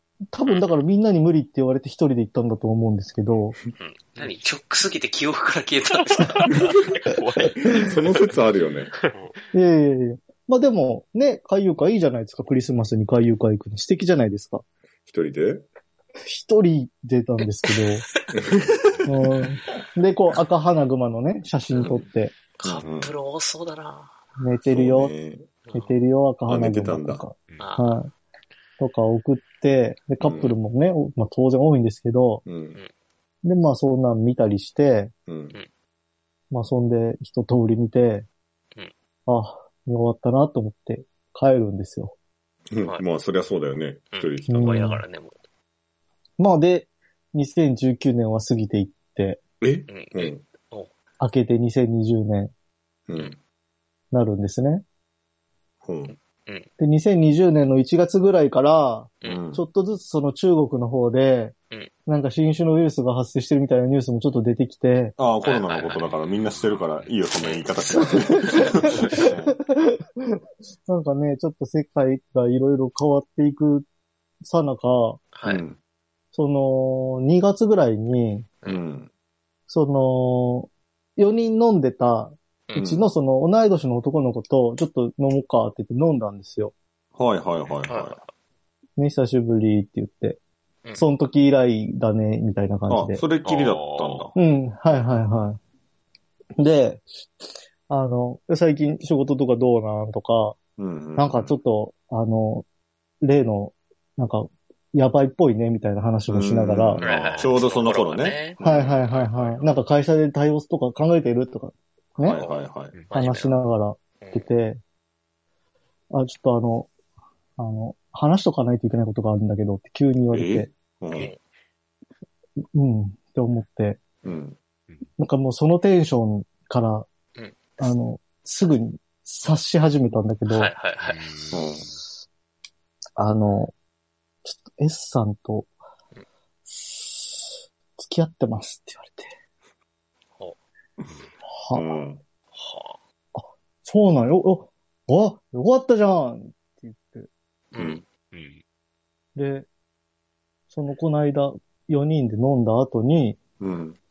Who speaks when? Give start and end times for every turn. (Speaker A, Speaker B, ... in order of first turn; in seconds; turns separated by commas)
Speaker A: 0.3-3.6, Speaker B: 3.8-6.5, Speaker C: 5.9-8.3, Speaker D: 7.6-8.9, Speaker A: 9.5-14.6, Speaker D: 15.1-15.7, Speaker A: 16.2-18.1, Speaker D: 18.3-19.1, Speaker A: 19.1-22.3, Speaker D: 21.8-22.0, Speaker B: 22.6-24.2, Speaker D: 22.6-23.1, Speaker A: 24.4-25.1, Speaker D: 24.7-25.5, Speaker B: 25.6-25.9, Speaker A: 25.7-28.1, Speaker D: 26.5-27.2, Speaker B: 27.6-28.0, Speaker A: 28.8-32.4, Speaker D: 30.2-30.6, Speaker D: 32.5-32.8, Speaker A: 33.4-35.1, Speaker D: 35.3-35.6, Speaker A: 36.5-38.3, Speaker A: 39.3-42.1, Speaker D: 42.7-44.9, Speaker B: 44.1-45.4, Speaker A: 44.5-45.0, Speaker A: 46.4-49.4, Speaker D: 49.6-50.4, Speaker B: 49.9-50.9, Speaker A: 51.2-52.5, Speaker D: 53.1-53.4, Speaker A: 54.1-54.8, Speaker D: 55.8-56.1, Speaker B: 56.1-56.7, Speaker A: 56.8-61.5, Speaker D: 59.2-59.6, Speaker A: 62.1-65.1, Speaker D: 65.2-69.6, Speaker B: 65.4-69.2, Speaker A: 68.1-73.9, Speaker A: 74.4-75.2, Speaker B: 75.3-75.6, Speaker D: 75.5-75.8, Speaker A: 76.3-78.5, Speaker D: 78.7-79.1, Speaker A: 79.7-86.7, Speaker D: 82.8-83.1, Speaker D: 87.2-88.2, Speaker B: 87.7-88.3, Speaker A: 89.0-90.4, Speaker A: 91.0-93.2, Speaker D: 92.9-94.3, Speaker B: 93.5-93.8, Speaker C: 93.5-94.3, Speaker A: 94.3-95.6, Speaker A: 96.6-97.0, Speaker A: 97.9-100.6, Speaker D: 100.8-101.6, Speaker A: 101.2-102.7, Speaker A: 103.2-107.0, Speaker D: 106.3-109.0, Speaker B: 107.0-109.7, Speaker C: 107.1-107.5, Speaker A: 108.6-112.4, Speaker B: 112.2-113.6, Speaker D: 112.2-113.0, Speaker A: 113.1-114.8, Speaker B: 114.2-114.5, Speaker A: 116.1-116.9, Speaker A: 117.6-120.7, Speaker D: 120.3-121.3, Speaker B: 121.1-121.4, Speaker A: 122.7-124.0, Speaker D: 124.2-124.6, Speaker A: 125.2-127.1, Speaker B: 127.4-127.9, Speaker A: 127.8-130.7, Speaker B: 130.5-131.6, Speaker C: 131.0-131.6, Speaker D: 131.5-131.9, Speaker A: 133.2-133.7, Speaker A: 134.4-135.7, Speaker A: 136.7-139.3, Speaker A: 141.5-141.9, Speaker D: 141.7-142.2, Speaker B: 142.5-143.0, Speaker A: 143.3-147.3, Speaker B: 147.7-148.0, Speaker D: 147.8-148.0, Speaker C: 148.3-148.6, Speaker A: 149.3-149.7, Speaker A: 150.7-153.4, Speaker D: 153.6-154.0